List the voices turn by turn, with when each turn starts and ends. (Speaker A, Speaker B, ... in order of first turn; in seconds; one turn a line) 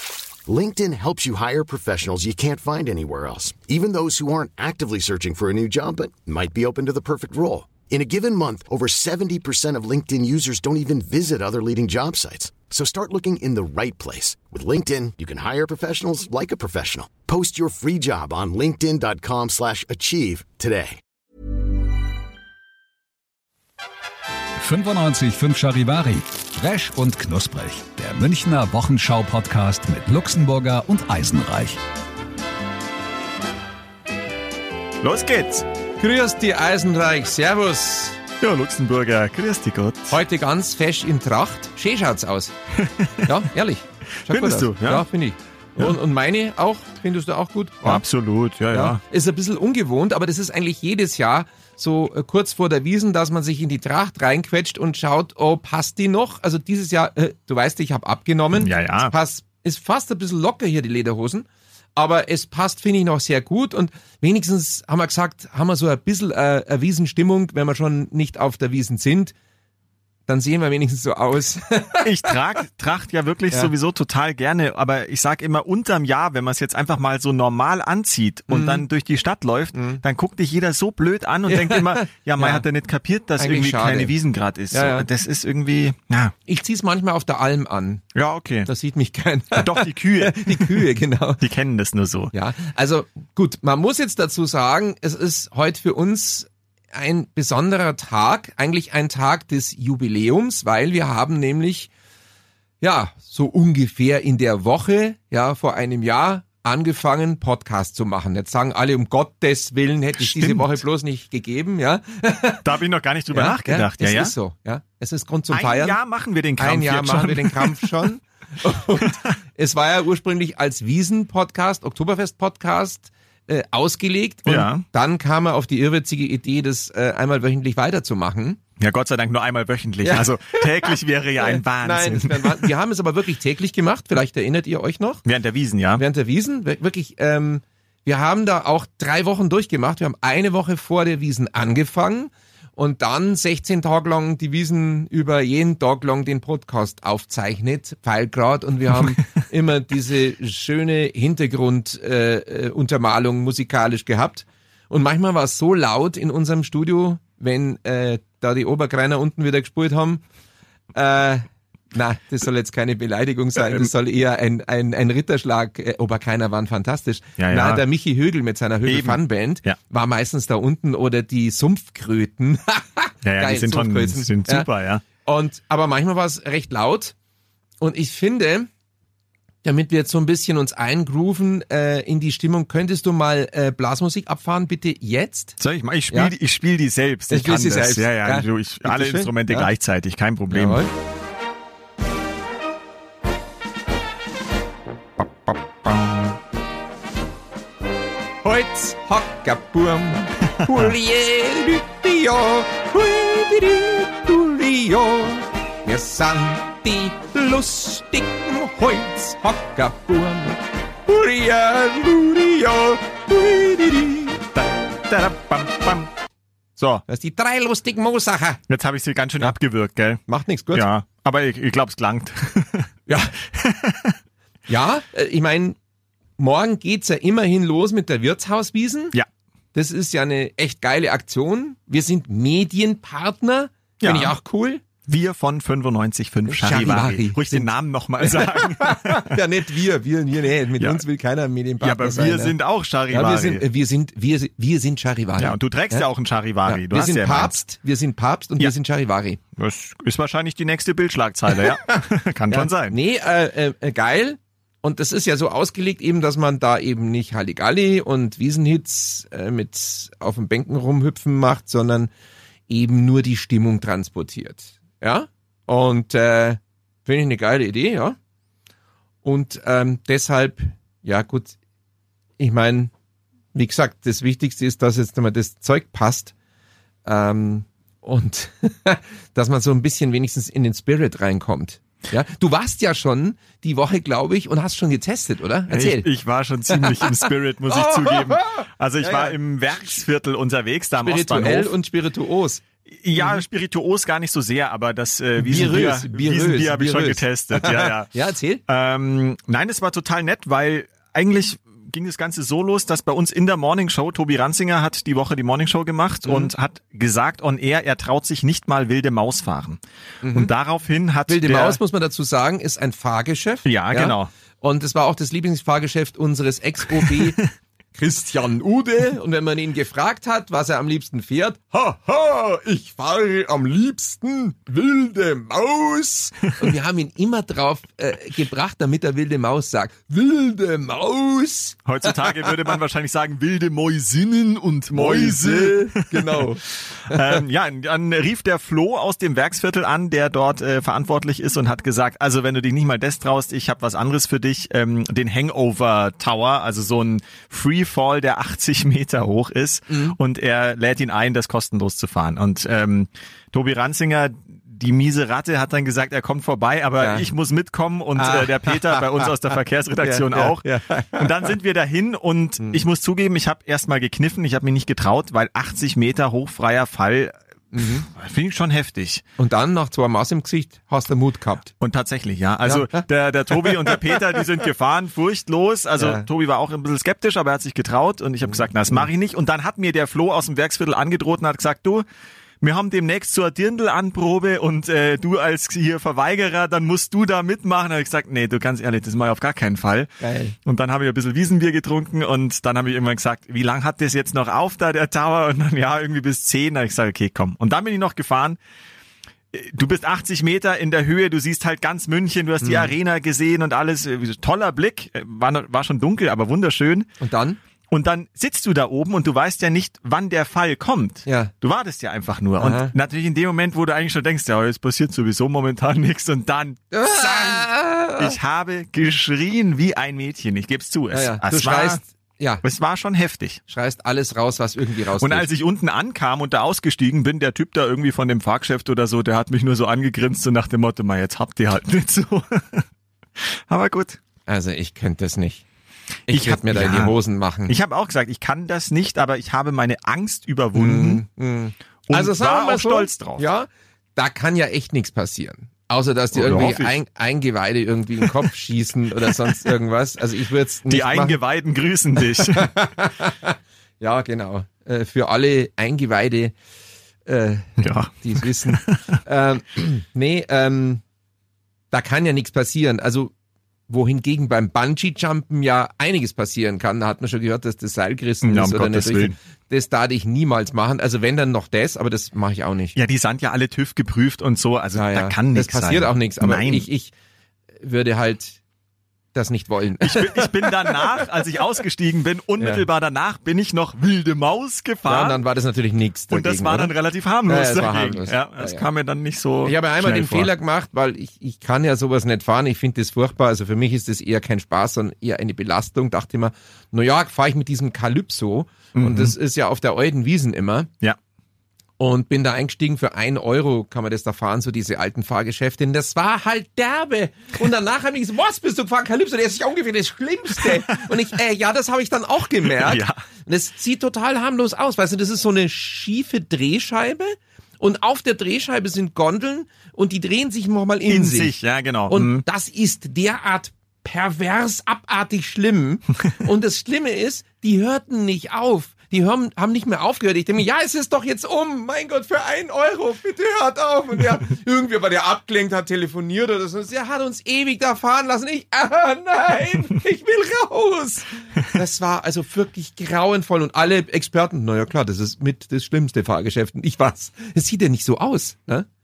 Speaker A: 0.5-21.0
Speaker B: 24.6-31.8
Speaker C: 35.0-35.6
Speaker D: 36.0-38.2
Speaker C: 38.4-40.2
Speaker D: 40.1-42.5
Speaker C: 42.8-43.3
Speaker D: 43.2-48.0
Speaker C: 44.2-45.0
Speaker C: 47.8-49.0
Speaker D: 48.7-69.3
Speaker C: 58.6-59.1
Speaker D: 70.3-72.3
Speaker C: 72.0-86.3
Speaker D: 78.5-78.8
Speaker D: 79.7-80.0
Speaker D: 81.5-82.6
Speaker D: 83.4-84.1
Speaker D: 84.7-85.1
Speaker D: 86.5-88.0
Speaker C: 88.1-88.7
Speaker D: 88.7-91.4
Speaker C: 89.5-90.8
Speaker C: 91.4-92.3
Speaker D: 92.3-101.9
Speaker D: 102.8-112.6
Speaker C: 110.2-110.8
Speaker C: 112.6-114.3
Speaker D: 113.3-116.0
Speaker C: 115.5-117.9
Speaker D: 116.6-128.6
Speaker C: 119.0-119.3
Speaker C: 124.5-124.8
Speaker C: 128.8-132.7
Speaker D: 130.0-135.2
Speaker C: 135.2-136.0
Speaker D: 135.9-160.2
Speaker D: 160.9-174.7
Speaker C: 167.4-167.8
Speaker C: 168.8-169.8
Speaker C: 173.2-175.0
Speaker D: 175.2-177.1
Speaker D: 177.8-178.7
Speaker D: 179.6-185.6
Speaker C: 185.6-190.8
Speaker D: 187.3-189.7
Speaker D: 190.5-190.9
Speaker D: 198.4-214.4
Speaker C: 214.5-216.1
Speaker C: 216.8-217.0
Speaker D: 217.1-218.6
Speaker C: 218.7-220.2
Speaker D: 220.3-220.8
Speaker C: 220.7-222.9
Speaker D: 223.1-223.3
Speaker C: 223.5-224.2
Speaker D: 224.7-225.8
Speaker D: 226.4-229.1
Speaker D: 229.7-234.8
Speaker C: 234.0-234.3
Speaker C: 235.1-239.4
Speaker D: 236.5-242.5
Speaker C: 241.8-243.7
Speaker D: 243.1-246.0
Speaker C: 245.4-247.6
Speaker D: 246.7-249.4
Speaker C: 249.6-253.0
Speaker D: 252.5-262.1
Speaker D: 262.7-268.2
Speaker D: 269.2-271.6
Speaker D: 272.4-272.9
Speaker D: 273.5-276.3
Speaker D: 277.0-286.1
Speaker C: 285.7-291.7
Speaker D: 286.7-289.4
Speaker D: 291.0-292.6
Speaker C: 292.9-298.1
Speaker D: 293.2-293.4
Speaker D: 295.4-298.6
Speaker C: 298.7-311.8
Speaker D: 306.2-306.5
Speaker D: 310.2-310.5
Speaker D: 311.3-317.4
Speaker C: 313.6-314.3
Speaker C: 317.0-317.3
Speaker D: 317.9-332.8
Speaker C: 331.9-336.5
Speaker D: 334.9-337.4
Speaker C: 337.0-369.2
Speaker D: 349.9-350.1
Speaker D: 357.0-357.2
Speaker D: 358.1-359.3
Speaker D: 360.0-361.5
Speaker D: 367.7-368.1
Speaker D: 369.4-371.7
Speaker C: 371.8-382.0
Speaker D: 372.6-373.0
Speaker D: 373.6-374.4
Speaker D: 376.0-376.2
Speaker D: 378.5-379.1
Speaker C: 382.6-390.1
Speaker D: 390.2-390.6
Speaker C: 390.6-398.6
Speaker C: 399.5-407.1
Speaker D: 402.6-402.9
Speaker D: 407.2-407.6
Speaker C: 407.9-417.6
Speaker D: 411.2-411.5
Speaker D: 412.6-412.9
Speaker D: 416.9-418.4
Speaker C: 418.1-422.0
Speaker D: 421.1-422.6
Speaker C: 422.6-423.6
Speaker D: 423.7-425.5
Speaker C: 425.2-432.9
Speaker C: 433.4-434.2
Speaker D: 434.5-435.6
Speaker D: 436.3-437.8
Speaker C: 436.3-437.1
Speaker C: 437.7-441.2
Speaker D: 440.7-451.4
Speaker C: 442.1-443.4
Speaker C: 446.3-446.9
Speaker C: 450.9-452.9
Speaker D: 452.2-456.5
Speaker D: 457.2-461.0
Speaker C: 457.8-459.1
Speaker D: 461.9-463.3
Speaker D: 463.9-472.9
Speaker C: 468.4-469.4
Speaker C: 472.9-476.9
Speaker D: 474.9-477.1
Speaker D: 477.8-478.6
Speaker D: 479.3-481.2
Speaker C: 480.0-485.4
Speaker D: 485.1-486.9
Speaker C: 486.3-490.5
Speaker D: 487.5-488.8
Speaker D: 489.6-500.9
Speaker C: 498.9-499.3
Speaker D: 502.0-521.5
Speaker C: 512.8-513.2
Speaker C: 521.1-522.4
Speaker D: 522.1-548.9